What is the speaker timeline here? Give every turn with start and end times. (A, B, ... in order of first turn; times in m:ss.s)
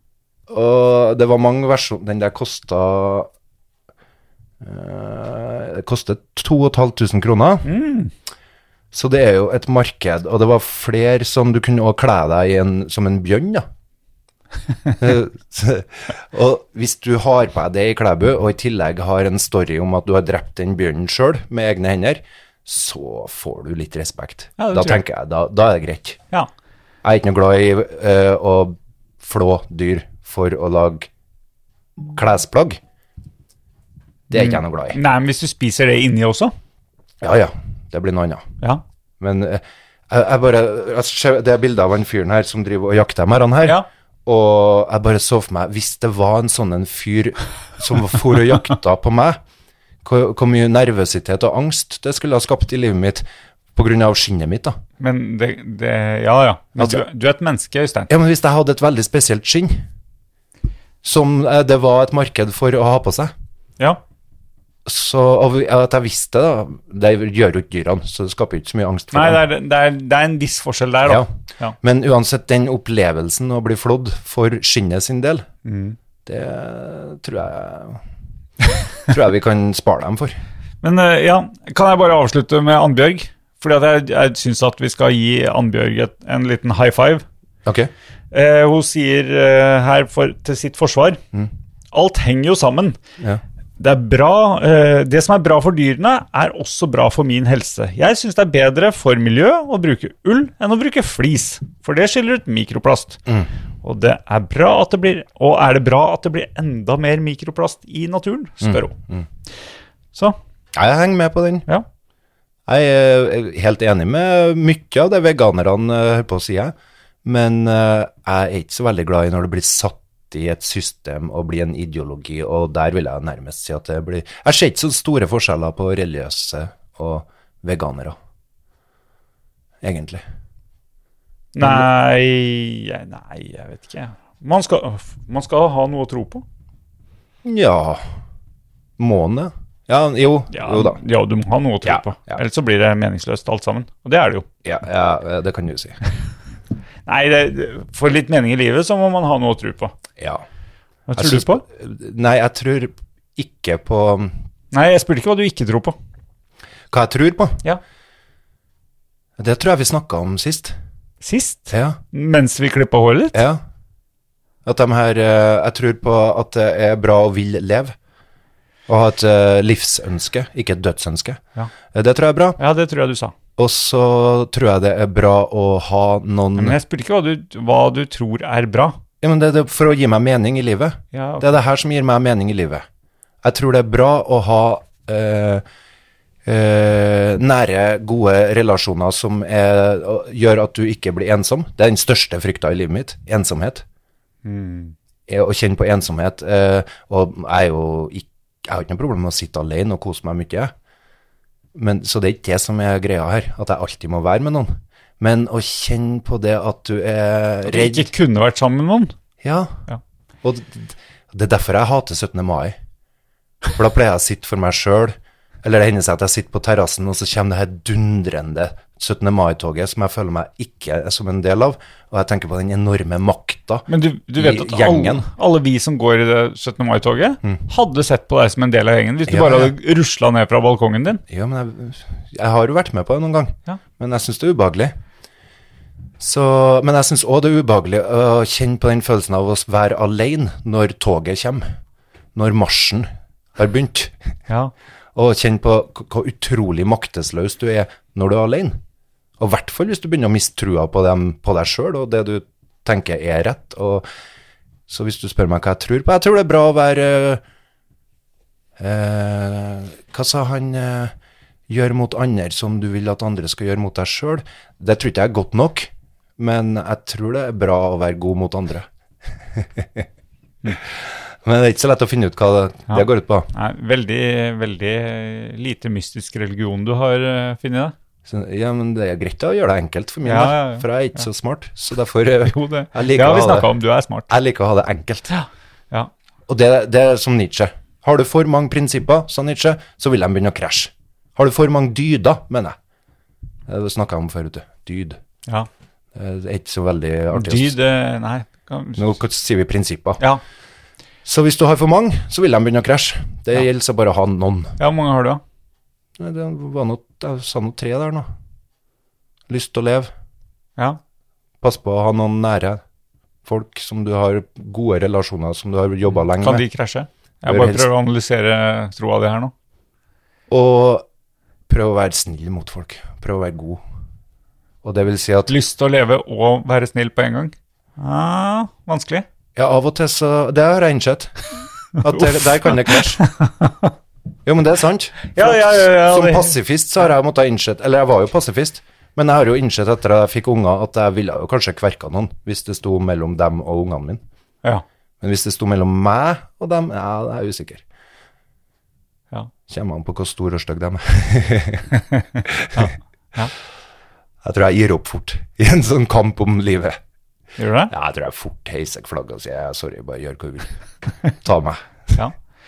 0:00.5-0:03.3 A
0:04.6-0:07.7 A
0:07.6-0:08.1 B
0:08.9-0:13.7 A
0:15.0-0:26.2 A
0:24.6-0:25.0 B
0:27.0-0:31.1 A
0:32.1-0:32.8 A
0:34.3-0:35.0 A
0:34.3-0:36.5 B
0:37.2-0:38.5 A
0:39.2-0:49.4 A
0:50.0-0:54.8 A
0:55.0-0:58.1 B
0:56.8-0:57.0 A
0:58.1-0:59.8 A
1:01.0-1:03.3 A
1:04.8-1:09.4 A
1:09.1-1:11.8 B
1:11.0-1:11.3 A
1:11.8-1:15.5 A
1:15.6-1:16.0 B
1:16.2-1:18.0 A
1:19.1-1:20.4 A
1:20.8-1:27.2 B
1:27.7-1:27.9 A
1:28.3-1:31.2 B
1:31.9-1:33.0 B
1:33.8-1:43.2 B
1:43.8-1:48.9 B
1:48.6-1:49.3 A
1:50.7-1:51.7 A
1:52.7-2:08.2 A
2:09.8-2:10.2 A
2:11.6-2:16.4 B
2:11.6-2:11.9 A
2:17.4-2:18.0 A
2:19.0-2:21.0 A
2:20.5-2:24.5 B
2:21.8-2:22.4 A
2:24.6-2:26.0 A
2:27.1-2:30.0 B
2:30.2-2:30.4 A
2:31.1-2:31.6 B
2:31.2-2:34.4 A
2:34.7-2:36.0 B
2:36.9-2:37.6 A
2:39.4-2:40.8 A
2:41.2-2:43.4 B
2:41.7-2:42.0 A
2:43.3-2:43.6 A
2:44.6-2:48.0 A
2:48.9-2:52.6 A
2:52.6-2:53.3 B
2:53.6-2:56.8 A
2:56.6-2:59.0 B
2:59.2-3:02.9 A
3:01.1-3:01.5 B
3:03.4-3:05.6 A
3:06.4-3:13.8 A
3:14.4-3:15.0 B
3:15.3-3:20.7 A
3:21.8-3:28.1 A
3:27.7-3:29.1 B
3:29.4-3:29.8 A
3:30.4-3:32.8 A
3:33.8-3:45.2 A
3:43.9-3:51.2 B
3:49.3-3:49.7 A
3:51.3-3:55.0 A
3:56.2-4:01.7 A
4:02.3-4:04.1 A
4:05.2-4:08.8 A
4:09.4-4:14.1 A
4:14.9-4:17.4 A
4:18.8-4:21.2 A
4:21.7-4:28.9 A
4:29.6-4:30.1 A
4:30.9-4:33.5 A
4:32.9-4:38.0 B
4:38.3-4:43.7 A
4:40.2-4:41.2 B
4:42.5-4:44.3 B
4:44.3-4:45.3 A
4:45.3-4:46.1 B
4:46.5-4:52.8 A
4:53.7-4:55.2 A
4:56.2-4:57.8 A
4:57.3-4:59.1 B
4:59.0-5:00.2 A
5:01.2-5:04.8 A
5:04.8-5:05.4 B
5:06.2-5:08.3 A
5:09.5-5:10.1 A
5:11.6-5:12.8 A
5:13.5-5:16.6 A
5:16.3-5:19.5 B
5:17.4-5:17.9 A
5:20.5-5:21.1 A
5:21.7-5:23.8 A
5:24.8-5:25.5 A
5:25.5-5:29.2 B
5:29.6-5:31.3 A
5:32.0-5:33.2 A
5:32.1-5:33.9 B
5:34.4-5:44.2 A
5:35.3-5:36.6 B
5:45.2-5:47.8 A
5:49.7-5:51.9 A
5:52.5-5:52.9 A
5:52.7-5:53.5 B
5:54.4-5:57.0 A
5:57.6-5:57.9 B
5:57.9-6:00.7 A
6:01.4-6:02.2 A